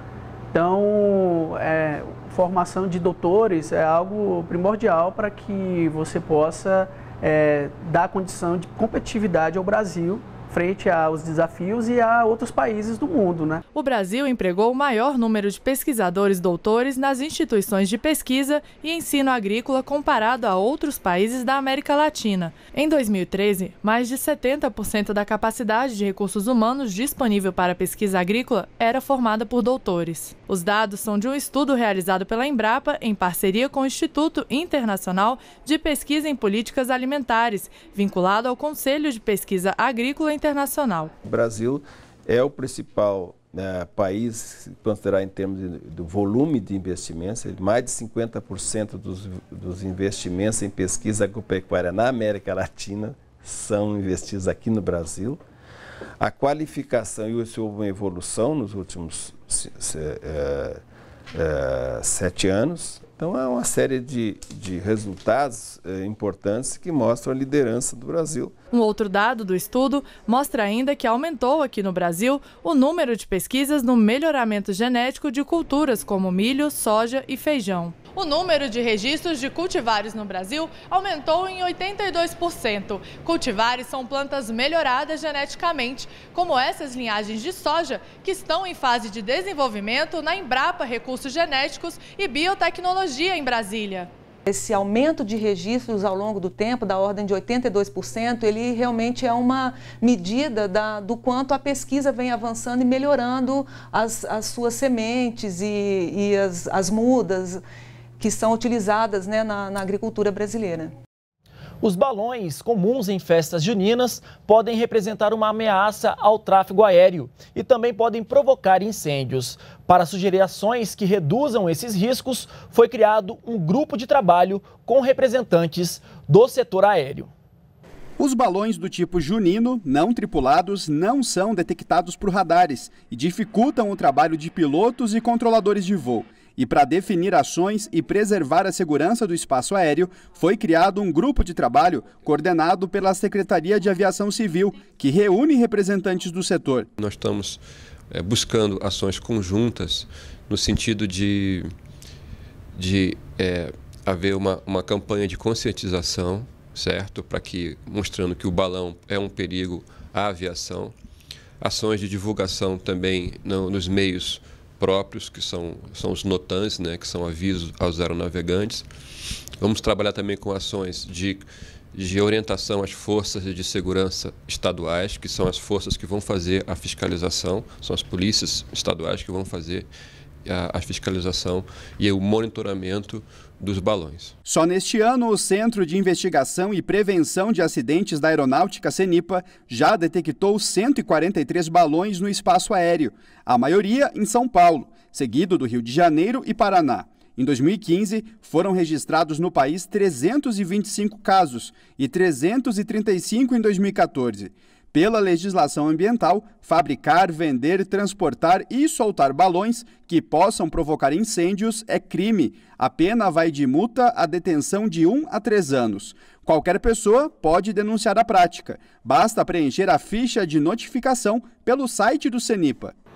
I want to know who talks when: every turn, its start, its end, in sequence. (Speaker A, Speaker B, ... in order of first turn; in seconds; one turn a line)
Speaker A: 0.5-13.6
Speaker B: 13.7-41.1
Speaker C: 41.2-55.4
Speaker C: 56.2-60.8
Speaker C: 61.3-68.5
Speaker B: 68.7-94.1
Speaker D: 94.5-107.6
Speaker D: 108.2-110.9
Speaker E: 111.8-127.3
Speaker F: 128.2-146.9
Speaker G: 147.0-151.7
Speaker G: 152.8-160.9
Speaker G: 161.6-168.9
Speaker G: 169.6-179.9
Speaker G: 180.4-184.3
Speaker F: 184.4-222.9